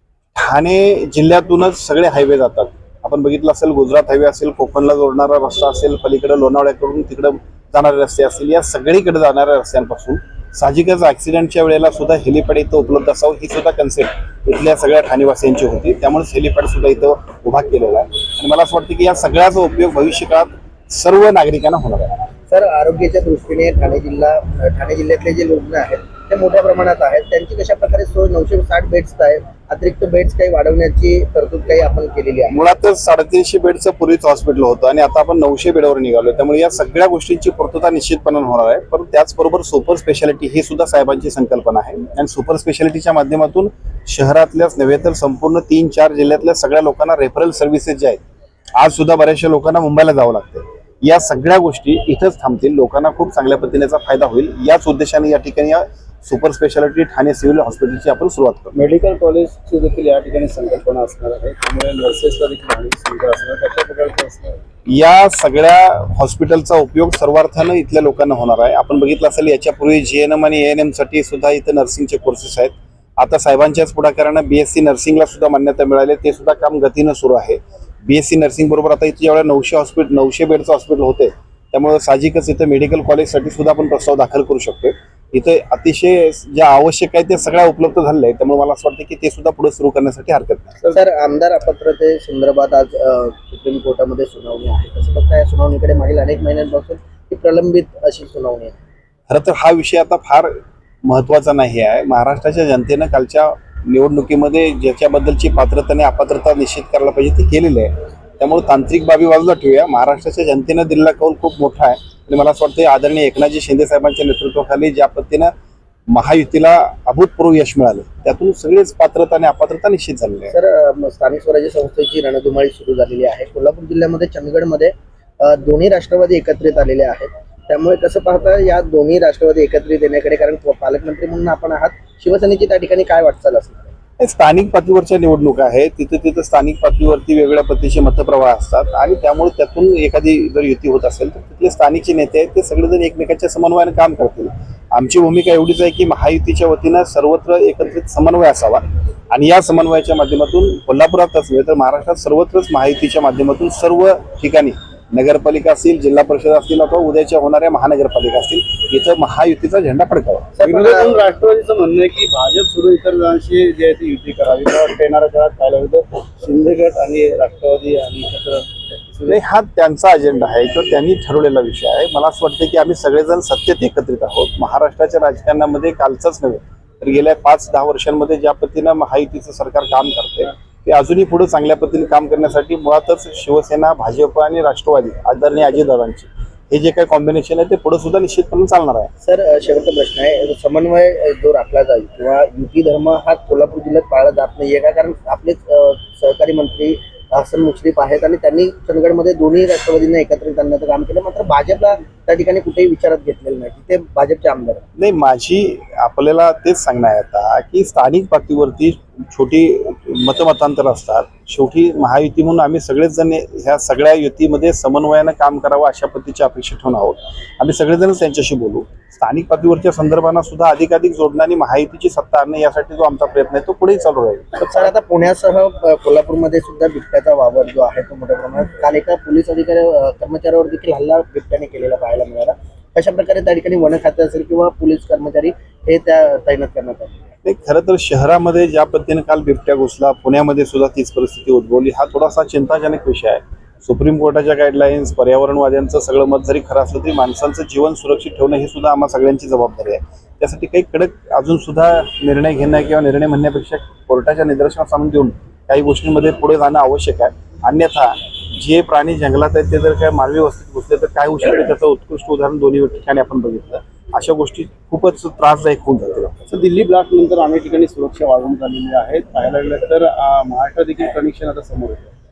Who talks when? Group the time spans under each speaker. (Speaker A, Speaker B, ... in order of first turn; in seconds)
Speaker A: 0.4-22.2, 32.5-48.2, 48.8-58.8, 64.9-90.8, 99.3-100.5, 101.0-115.5, 116.1-120.5, 134.2-160.5, 169.3-189.1, 205.0-224.5, 237.4-266.5
Speaker B: 22.5-32.6, 90.9-98.8, 120.5-133.9, 160.6-161.2, 189.2-204.8, 224.6-237.2
Speaker C: 58.7-64.6, 160.6-169.4, 266.5-272.1